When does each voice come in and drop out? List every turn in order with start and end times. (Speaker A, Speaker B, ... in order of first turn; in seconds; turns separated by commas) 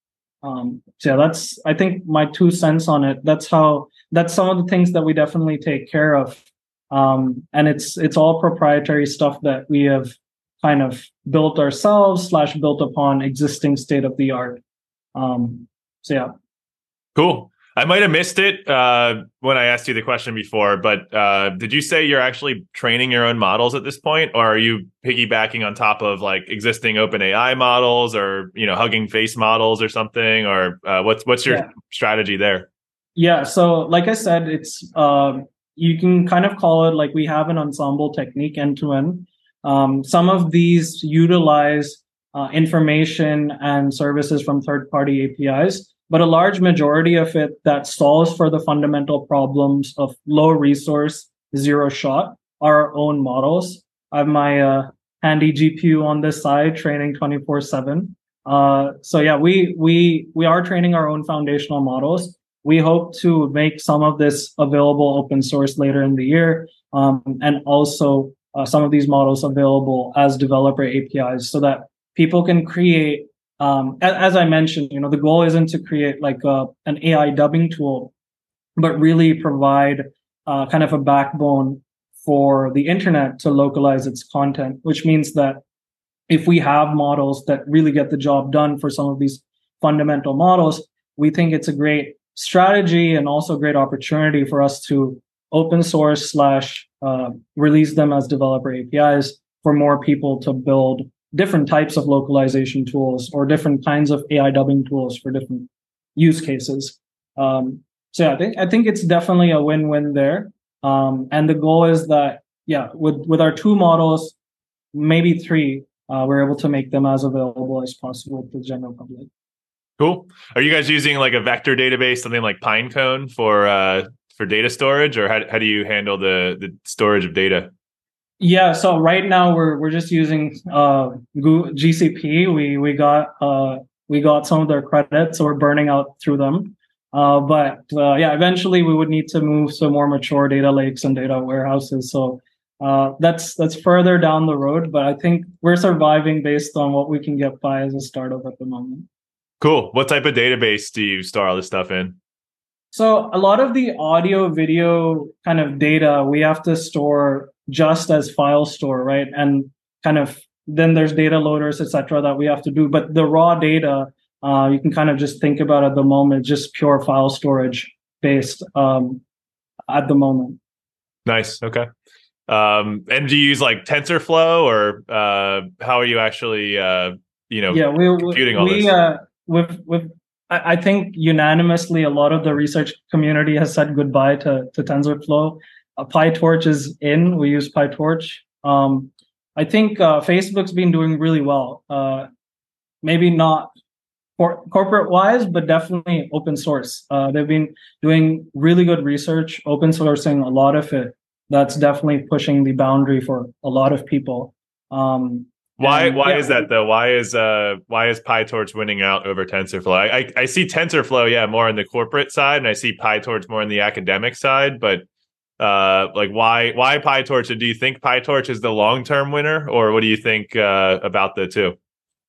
Speaker A: 0.4-14.6, Speaker A: 15.2-16.3, Speaker B: 17.1-32.7, Speaker A: 33.2-78.1, Speaker A: 78.8-85.6, Speaker A: 86.3-114.3, Speaker A: 114.9-119.3, Speaker B: 120.0-127.7, Speaker A: 128.4-149.1, Speaker B: 149.6-152.2, Speaker A: 152.9-169.2, Speaker A: 169.9-170.6, Speaker B: 171.3-171.9, Speaker B: 172.5-178.9, Speaker A: 177.7-192.3, Speaker A: 193.0-193.7, Speaker A: 194.4-206.7, Speaker B: 205.8-215.1, Speaker B: 215.6-221.8